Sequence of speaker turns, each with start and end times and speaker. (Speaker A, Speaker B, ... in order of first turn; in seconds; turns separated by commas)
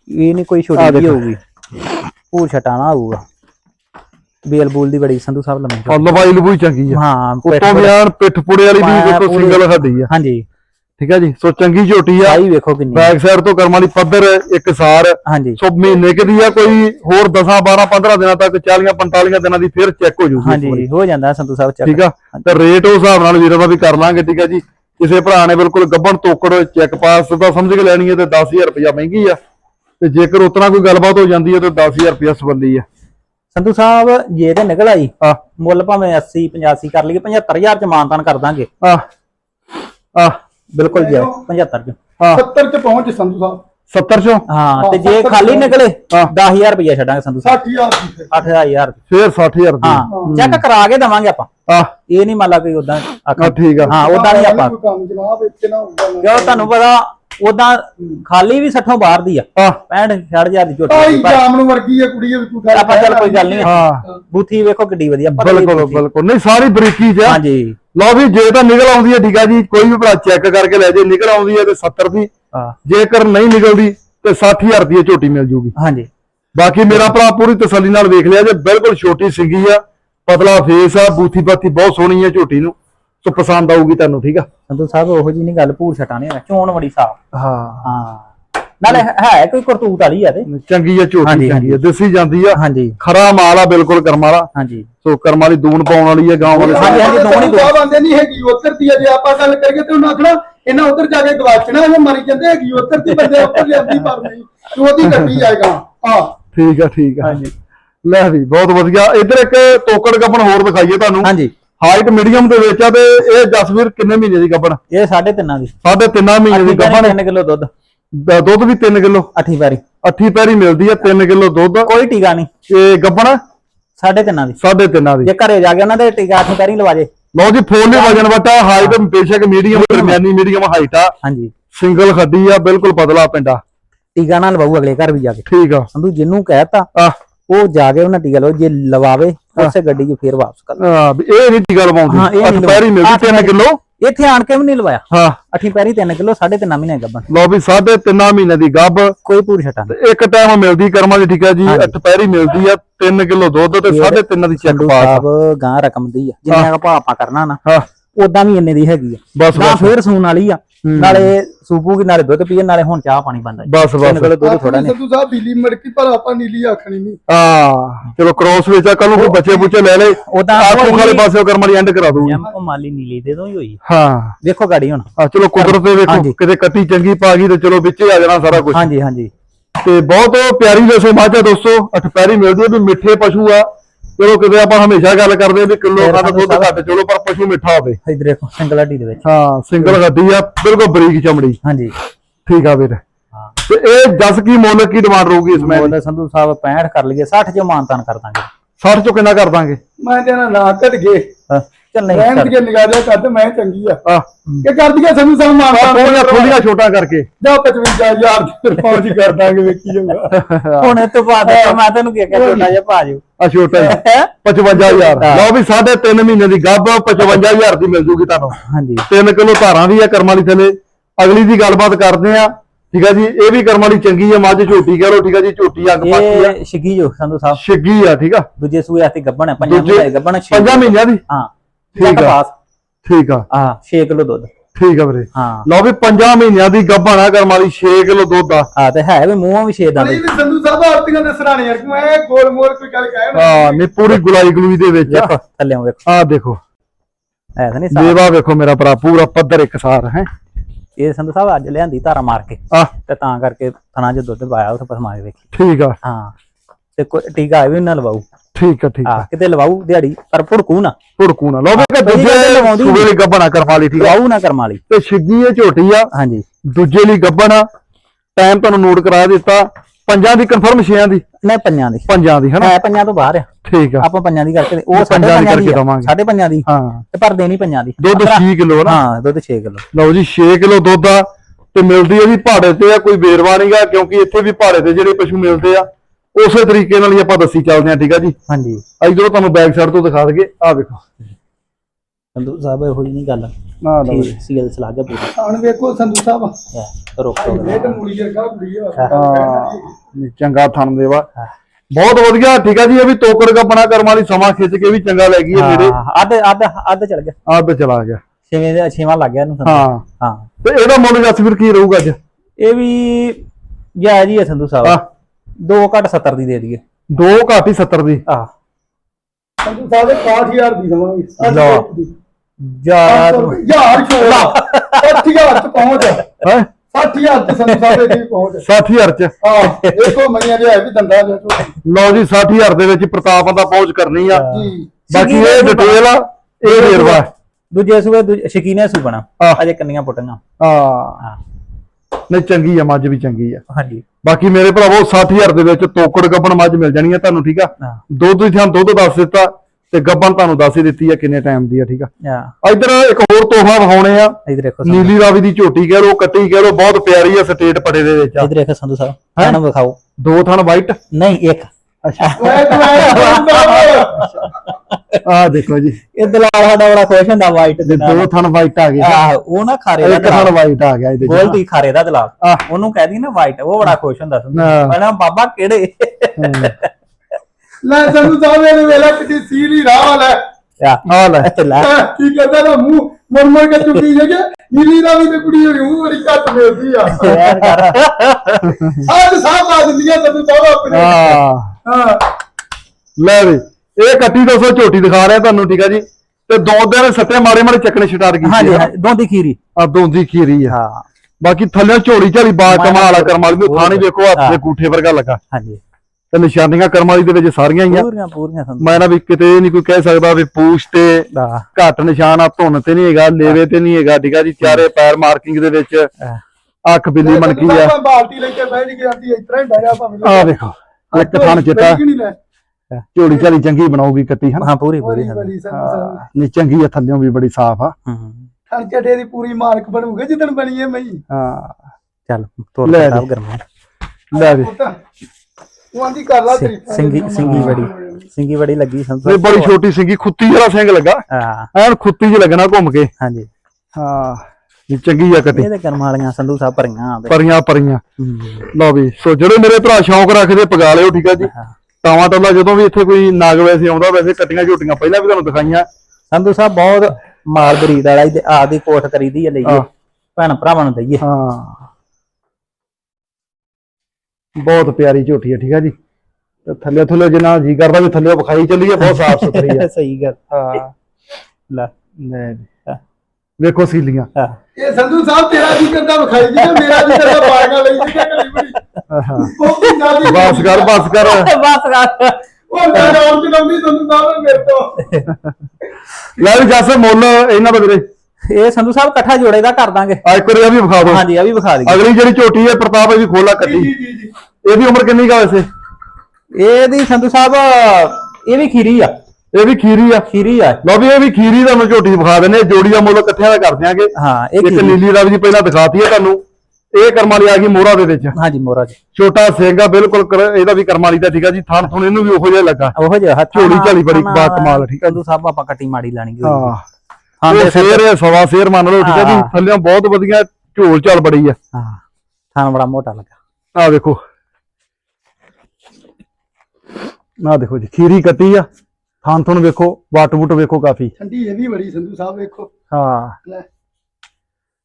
Speaker A: 0.1-1.4, Speaker B: 0.8-1.2, Speaker A: 2.3-3.2, Speaker A: 4.4-6.2, Speaker B: 5.9-10.1, Speaker A: 6.9-8.0, Speaker A: 8.8-10.5, Speaker B: 11.0-12.4, Speaker A: 12.2-13.1, Speaker B: 12.9-20.9, Speaker A: 15.2-15.6, Speaker A: 20.4-22.6, Speaker B: 21.8-29.4, Speaker B: 30.0-32.9, Speaker A: 33.5-38.7, Speaker B: 40.1-40.4, Speaker A: 40.7-42.0, Speaker C: 40.9-41.4, Speaker B: 42.2-42.4, Speaker C: 42.3-43.6, Speaker B: 43.9-44.5, Speaker A: 44.5-47.6, Speaker C: 44.8-45.8, Speaker C: 47.4-48.3, Speaker A: 48.3-49.0, Speaker B: 49.1-50.6, Speaker A: 49.8-51.5, Speaker C: 50.1-50.4, Speaker B: 51.7-51.9, Speaker A: 52.1-54.7, Speaker B: 53.4-54.0, Speaker C: 53.8-56.7, Speaker A: 56.2-61.4, Speaker C: 60.9-64.1, Speaker A: 62.7-63.8, Speaker B: 63.6-64.0, Speaker A: 64.3-66.0, Speaker B: 65.3-67.4, Speaker A: 67.2-67.8, Speaker B: 68.0-72.3, Speaker B: 72.8-75.7, Speaker A: 75.8-76.1, Speaker B: 76.5-84.5, Speaker A: 84.7-87.2, Speaker B: 87.3-87.9, Speaker A: 87.8-88.3, Speaker A: 88.8-90.5, Speaker B: 90.5-94.5, Speaker A: 91.2-91.8, Speaker A: 92.5-93.0, Speaker A: 94.5-94.9, Speaker B: 95.0-97.5, Speaker C: 96.5-106.4, Speaker A: 96.6-97.8, Speaker A: 103.1-104.0, Speaker B: 106.5-107.4, Speaker A: 107.2-107.5, Speaker B: 108.0-114.8, Speaker A: 111.2-111.5, Speaker A: 114.9-115.7, Speaker B: 115.8-117.2, Speaker A: 116.5-117.7, Speaker B: 118.1-119.3, Speaker A: 119.3-119.8, Speaker B: 120.0-121.9, Speaker A: 121.8-122.5, Speaker B: 122.7-123.4, Speaker A: 124.0-124.6, Speaker B: 124.6-125.3, Speaker A: 125.2-127.1, Speaker B: 127.3-131.1, Speaker A: 127.9-129.0, Speaker A: 129.7-130.2, Speaker A: 131.2-131.5, Speaker B: 131.7-133.6, Speaker A: 134.2-136.9, Speaker B: 135.5-135.9, Speaker A: 137.5-140.8, Speaker B: 140.8-143.8, Speaker A: 142.1-147.3, Speaker B: 145.1-145.4, Speaker B: 147.3-149.2, Speaker A: 149.2-149.9, Speaker B: 149.9-155.2, Speaker A: 151.7-151.9, Speaker A: 153.9-157.6, Speaker A: 158.2-164.9, Speaker B: 159.3-159.9, Speaker B: 160.8-161.3, Speaker B: 163.6-164.3, Speaker C: 164.4-167.2, Speaker B: 167.3-172.4, Speaker A: 170.2-171.3, Speaker A: 172.2-173.8, Speaker B: 173.8-174.4, Speaker A: 174.4-176.4, Speaker B: 175.2-178.9, Speaker A: 178.7-179.3, Speaker B: 179.8-188.0, Speaker A: 186.0-186.8, Speaker A: 188.1-189.2, Speaker B: 189.2-191.6, Speaker A: 191.6-191.9, Speaker B: 192.5-193.0, Speaker B: 193.7-195.9, Speaker A: 195.6-198.5, Speaker B: 198.8-199.8, Speaker C: 200.0-201.3, Speaker A: 201.5-202.5, Speaker C: 202.1-204.0, Speaker C: 204.6-206.6, Speaker B: 205.7-207.3, Speaker C: 207.4-210.4, Speaker B: 210.3-211.8, Speaker A: 210.8-213.2, Speaker C: 212.3-212.7, Speaker B: 213.4-218.6, Speaker A: 213.8-214.3, Speaker A: 214.8-215.5, Speaker C: 214.9-215.2, Speaker A: 218.7-219.1, Speaker B: 219.1-226.6, Speaker A: 226.0-227.6, Speaker B: 227.5-228.5, Speaker A: 228.6-232.5, Speaker B: 229.6-231.2, Speaker B: 232.0-232.4, Speaker B: 233.1-233.4, Speaker A: 233.5-234.5, Speaker B: 234.8-238.7, Speaker A: 235.3-235.7, Speaker A: 238.8-240.2, Speaker C: 240.0-243.9, Speaker B: 243.3-245.3, Speaker A: 245.1-246.0, Speaker B: 246.1-246.6, Speaker A: 247.6-248.2, Speaker B: 247.9-250.3, Speaker A: 251.0-255.4, Speaker B: 255.5-256.0, Speaker A: 256.0-256.3, Speaker A: 257.0-258.2, Speaker B: 258.6-259.3, Speaker A: 259.1-261.0, Speaker B: 261.2-264.2, Speaker A: 261.7-263.1, Speaker A: 264.0-264.8, Speaker B: 264.9-266.1, Speaker A: 266.1-266.4, Speaker B: 266.6-267.7, Speaker B: 268.4-271.2, Speaker A: 271.4-273.5, Speaker B: 272.1-272.7, Speaker B: 273.6-274.1, Speaker A: 274.0-279.9, Speaker B: 274.9-276.1, Speaker B: 276.7-277.0, Speaker B: 278.0-279.0, Speaker B: 279.9-288.4, Speaker A: 288.5-288.8, Speaker B: 289.0-291.0, Speaker A: 292.4-295.4, Speaker B: 293.8-294.4, Speaker C: 295.4-296.6, Speaker A: 296.7-298.0, Speaker C: 297.4-299.9, Speaker B: 299.1-301.3, Speaker B: 301.9-306.0, Speaker A: 305.5-307.4, Speaker B: 307.5-308.2, Speaker A: 308.5-310.5, Speaker B: 309.6-310.0, Speaker B: 310.6-312.2, Speaker A: 312.6-313.4, Speaker A: 314.0-315.0, Speaker A: 315.6-316.8, Speaker B: 317.1-318.2, Speaker C: 319.6-322.1, Speaker A: 321.4-321.8, Speaker B: 321.4-321.8, Speaker A: 322.6-325.3, Speaker C: 323.1-326.3, Speaker A: 325.8-326.2, Speaker B: 326.4-326.7, Speaker C: 326.9-328.7, Speaker A: 327.6-328.2, Speaker B: 328.6-329.4, Speaker C: 329.4-331.8, Speaker A: 329.6-330.2, Speaker B: 331.8-334.5, Speaker A: 334.3-336.0, Speaker C: 334.5-334.9, Speaker B: 335.1-337.3, Speaker A: 336.7-337.2, Speaker A: 337.7-340.4, Speaker B: 340.6-341.2, Speaker B: 342.3-343.6, Speaker A: 343.7-344.0, Speaker B: 344.2-352.1, Speaker A: 352.2-352.5, Speaker B: 352.6-358.5, Speaker A: 354.5-355.1, Speaker A: 358.4-360.0, Speaker B: 360.2-361.0, Speaker A: 361.1-365.2, Speaker B: 362.0-363.3, Speaker C: 362.4-364.3, Speaker B: 365.2-366.0, Speaker A: 366.1-368.3, Speaker B: 367.9-369.2, Speaker A: 369.0-370.5, Speaker B: 370.0-371.6, Speaker A: 371.2-376.9, Speaker B: 374.5-375.0, Speaker B: 376.4-376.7, Speaker C: 377.8-380.4, Speaker A: 380.8-381.9, Speaker B: 381.1-381.5, Speaker C: 381.8-387.4, Speaker A: 387.1-389.0, Speaker B: 387.4-387.9, Speaker B: 388.6-389.1, Speaker C: 389.0-391.3, Speaker B: 390.9-391.8, Speaker C: 391.9-392.3, Speaker B: 393.2-398.9, Speaker A: 398.4-399.6, Speaker B: 399.8-400.8, Speaker A: 400.7-401.1, Speaker B: 401.4-405.4, Speaker A: 402.7-404.6, Speaker A: 405.5-405.8, Speaker B: 406.3-408.1, Speaker A: 407.9-409.0, Speaker B: 408.8-416.1, Speaker A: 411.3-411.7, Speaker B: 416.9-417.9, Speaker C: 417.2-420.6, Speaker B: 420.2-422.0, Speaker C: 421.1-422.4, Speaker B: 423.1-424.7, Speaker A: 424.6-425.5, Speaker C: 425.0-426.2, Speaker B: 425.7-427.9, Speaker A: 428.1-428.5, Speaker C: 428.7-431.2, Speaker B: 431.3-431.8, Speaker A: 432.3-433.6, Speaker B: 432.9-433.2, Speaker B: 434.3-434.7, Speaker C: 434.3-435.0, Speaker C: 435.9-438.2, Speaker A: 436.5-439.7, Speaker B: 437.4-437.9, Speaker B: 439.3-441.2, Speaker A: 441.3-441.7, Speaker B: 441.7-443.1, Speaker A: 443.2-443.5, Speaker B: 443.9-445.7, Speaker A: 445.5-447.4, Speaker B: 447.3-448.0, Speaker A: 448.2-448.7, Speaker B: 448.7-451.5, Speaker A: 451.4-451.7, Speaker B: 452.0-455.9, Speaker A: 456.3-461.2, Speaker B: 461.2-461.8, Speaker B: 464.6-465.9, Speaker B: 466.6-469.9, Speaker A: 469.0-470.8, Speaker B: 470.5-470.9, Speaker B: 472.2-472.7, Speaker B: 473.6-474.3, Speaker C: 474.8-478.8, Speaker A: 476.6-479.9, Speaker B: 479.1-479.5, Speaker C: 479.4-481.0, Speaker B: 480.2-481.5, Speaker A: 481.1-482.4, Speaker C: 482.7-485.1, Speaker A: 485.0-485.3, Speaker B: 486.4-488.1, Speaker A: 488.5-490.2, Speaker B: 490.2-491.2, Speaker A: 491.0-492.0, Speaker B: 491.9-493.9, Speaker C: 493.6-494.3, Speaker B: 494.6-495.7, Speaker A: 496.6-499.1, Speaker B: 499.5-500.3, Speaker A: 500.3-500.8, Speaker B: 500.8-506.4, Speaker A: 504.1-505.0, Speaker B: 506.9-508.4, Speaker A: 508.4-509.0, Speaker B: 509.1-513.0, Speaker A: 513.0-516.8, Speaker B: 513.5-515.2, Speaker B: 516.4-516.8, Speaker A: 517.4-518.0, Speaker B: 517.5-521.6, Speaker A: 519.0-519.5, Speaker A: 521.7-522.0, Speaker A: 522.5-523.3, Speaker B: 523.8-524.2, Speaker B: 527.4-528.7, Speaker B: 529.2-531.1, Speaker C: 531.2-532.7, Speaker B: 532.9-533.4